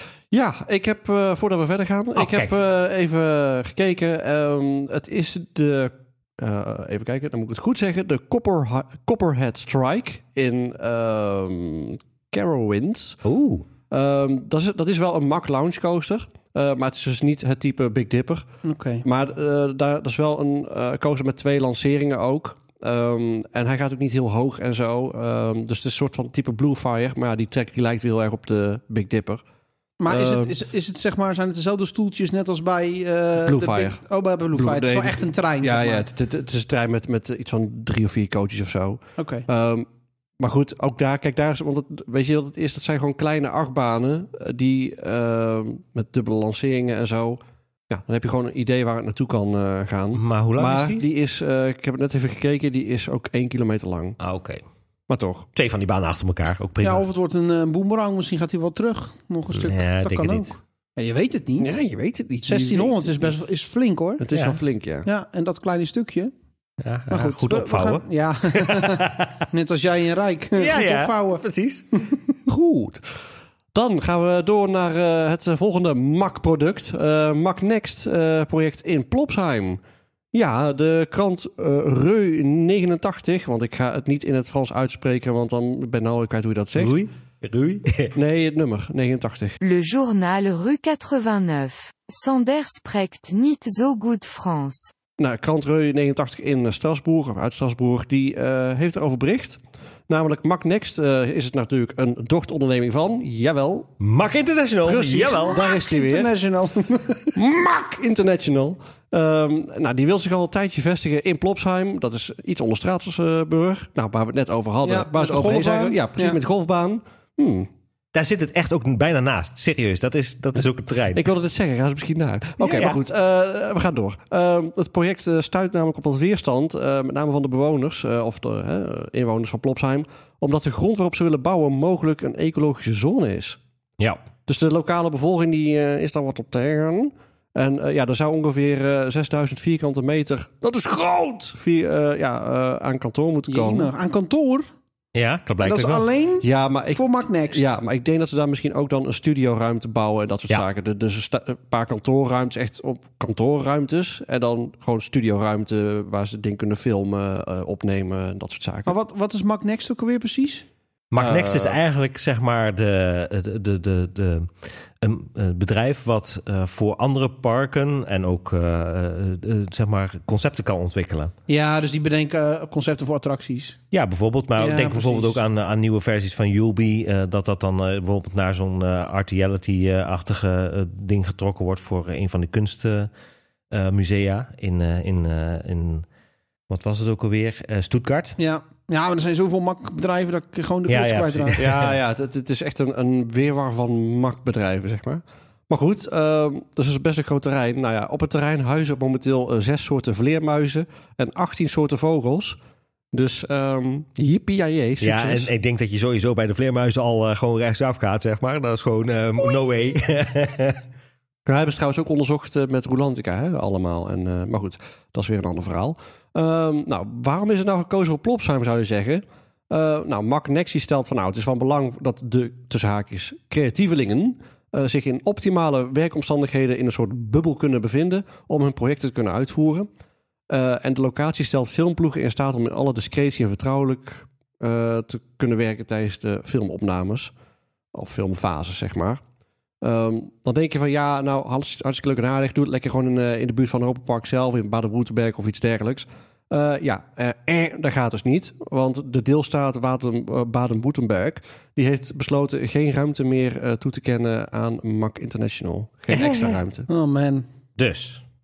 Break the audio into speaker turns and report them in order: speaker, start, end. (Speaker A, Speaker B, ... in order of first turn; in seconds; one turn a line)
Speaker A: 0.3-13.2
Speaker B: 2.1-2.5
Speaker B: 13.2-13.6
Speaker A: 13.9-18.4
Speaker C: 18.6-19.1
Speaker A: 19.0-29.4
Speaker C: 30.0-36.1
Speaker A: 30.1-30.6
Speaker A: 33.4-34.0
Speaker A: 34.5-39.9
Speaker C: 39.2-39.5
Speaker A: 40.4-54.2
Speaker B: 50.1-51.0
Speaker B: 54.2-54.6
Speaker A: 55.1-55.5
Speaker B: 55.5-57.0
Speaker C: 56.8-61.8
Speaker B: 59.5-60.6
Speaker A: 61.6-63.4
Speaker C: 62.4-64.2
Speaker A: 64.2-65.1
Speaker B: 64.3-64.6
Speaker C: 65.0-66.3
Speaker B: 66.8-69.3
Speaker C: 67.1-71.4
Speaker B: 70.5-71.9
Speaker A: 72.5-79.8
Speaker A: 80.3-87.0
Speaker B: 86.8-88.2
Speaker A: 88.1-89.6
Speaker D: 89.6-94.9
Speaker A: 95.2-103.9
Speaker B: 104.0-105.6
Speaker A: 104.9-106.3
Speaker C: 104.9-107.4
Speaker A: 107.4-117.7
Speaker C: 114.8-116.4
Speaker B: 118.1-121.3
Speaker A: 121.1-133.6
Speaker B: 122.6-123.0
Speaker A: 134.5-143.9
Speaker C: 143.5-144.7
Speaker B: 145.1-146.1
Speaker C: 145.6-147.7
Speaker A: 146.4-158.9
Speaker C: 158.9-160.6
Speaker B: 161.1-164.5
Speaker A: 161.2-161.8
Speaker B: 165.0-171.3
Speaker C: 171.5-173.8
Speaker B: 173.9-183.1
Speaker C: 174.6-175.4
Speaker B: 183.7-186.1
Speaker B: 186.7-188.4
Speaker C: 188.4-191.6
Speaker B: 190.9-191.9
Speaker A: 191.6-202.6
Speaker A: 203.1-205.5
Speaker B: 205.0-210.8
Speaker A: 211.4-229.9
Speaker A: 230.5-237.3
Speaker A: 237.9-239.2
Speaker A: 239.8-256.9
Speaker B: 256.1-256.5
Speaker C: 256.9-257.4
Speaker B: 257.8-258.2